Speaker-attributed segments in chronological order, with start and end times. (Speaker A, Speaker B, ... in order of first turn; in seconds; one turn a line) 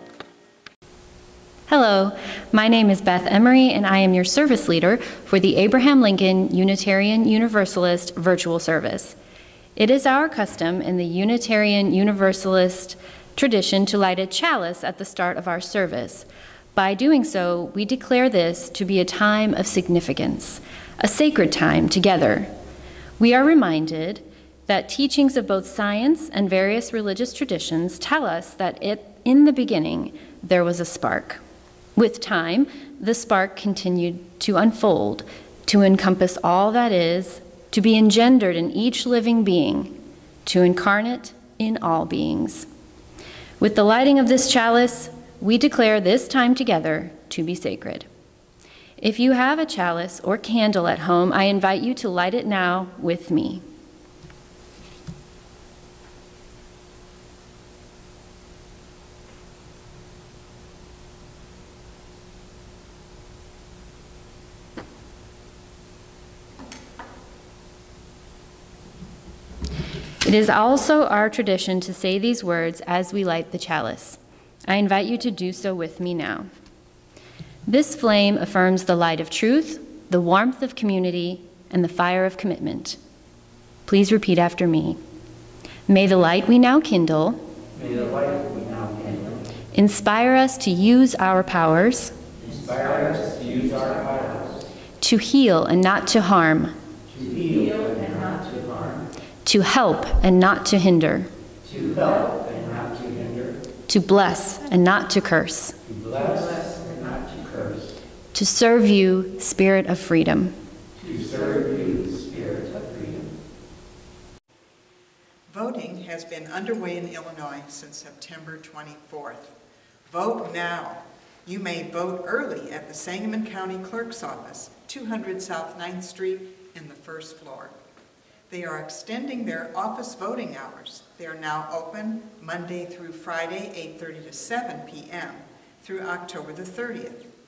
Speaker A: 1.7-9.2
Speaker A: 9.8-22.5
Speaker A: 23.2-31.4
Speaker A: 31.9-42.7
Speaker A: 43.6-48.1
Speaker A: 49.0-53.6
Speaker A: 70.2-76.5
Speaker A: 77.7-83.0
Speaker A: 83.8-85.0
Speaker A: 85.9-87.4
Speaker B: 87.7-89.4
Speaker A: 89.7-92.2
Speaker B: 92.4-94.7
Speaker A: 95.0-96.7
Speaker B: 97.1-99.1
Speaker A: 99.4-101.3
Speaker B: 101.6-103.6
Speaker A: 103.9-105.8
Speaker B: 105.8-108.0
Speaker A: 108.3-110.5
Speaker B: 111.0-113.3
Speaker C: 115.5-119.5
Speaker C: 120.1-127.8
Speaker C: 128.5-137.3